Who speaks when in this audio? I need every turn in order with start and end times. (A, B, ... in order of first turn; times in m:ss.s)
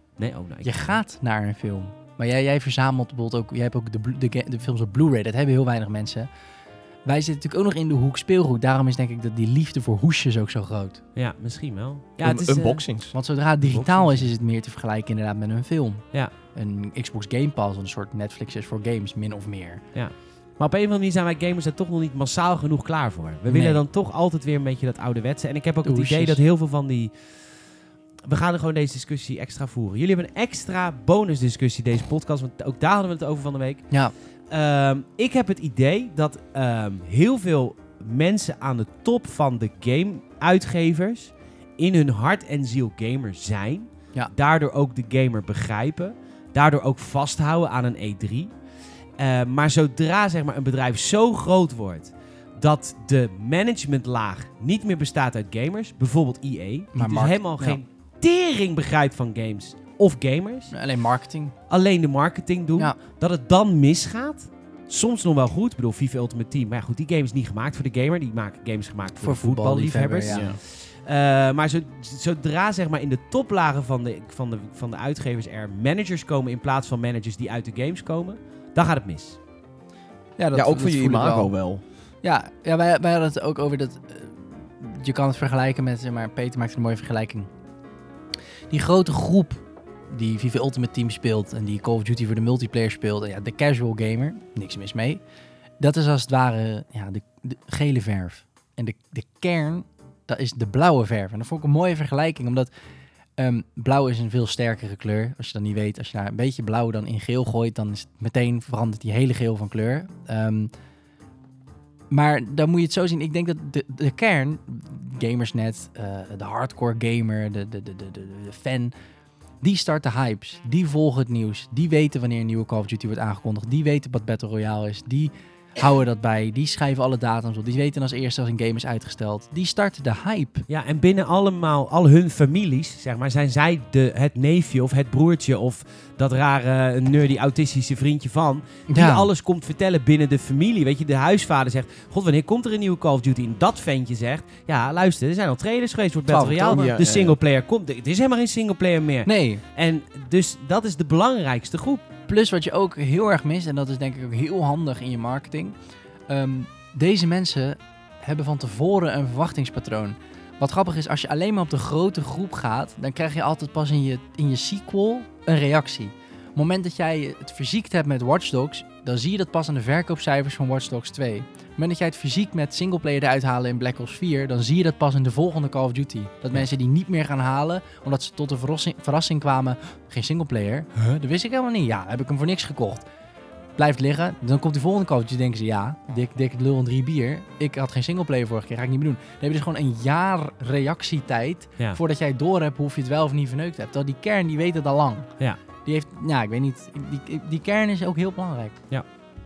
0:00.2-0:01.0 A
0:00.6-0:06.3 B
0:07.0-0:11.0 B
0:11.2-0:12.8 A
0:12.2-0:13.1 C
0:13.1-0:19.9 B
0:13.6-0:14.3 A
0:19.9-0:27.5 A
0:23.5-0:23.8 B
0:25.8-0:26.4 B
0:28.2-0:48.6 A
0:49.2-1:00.7 A
0:56.9-0:57.8 B
1:00.7-1:01.6 B
1:01.7-1:19.4 A
1:09.2-1:10.5 B
1:10.3-1:10.6 C
1:20.4-1:21.6 B
1:20.5-1:21.8 C
1:22.2-1:27.5 B
1:28.7-1:35.2 B
1:35.8-1:42.7 B
1:43.4-1:50.7 B
1:52.1-1:58.9 B
1:59.6-2:10.7 B
2:10.7-2:32.0 A
2:18.9-2:19.3 B
2:26.3-2:26.9 B
2:26.7-2:27.4 C
2:29.3-2:29.6 B
2:32.3-2:35.8 B
2:36.3-3:03.1 B
3:03.8-3:18.9 B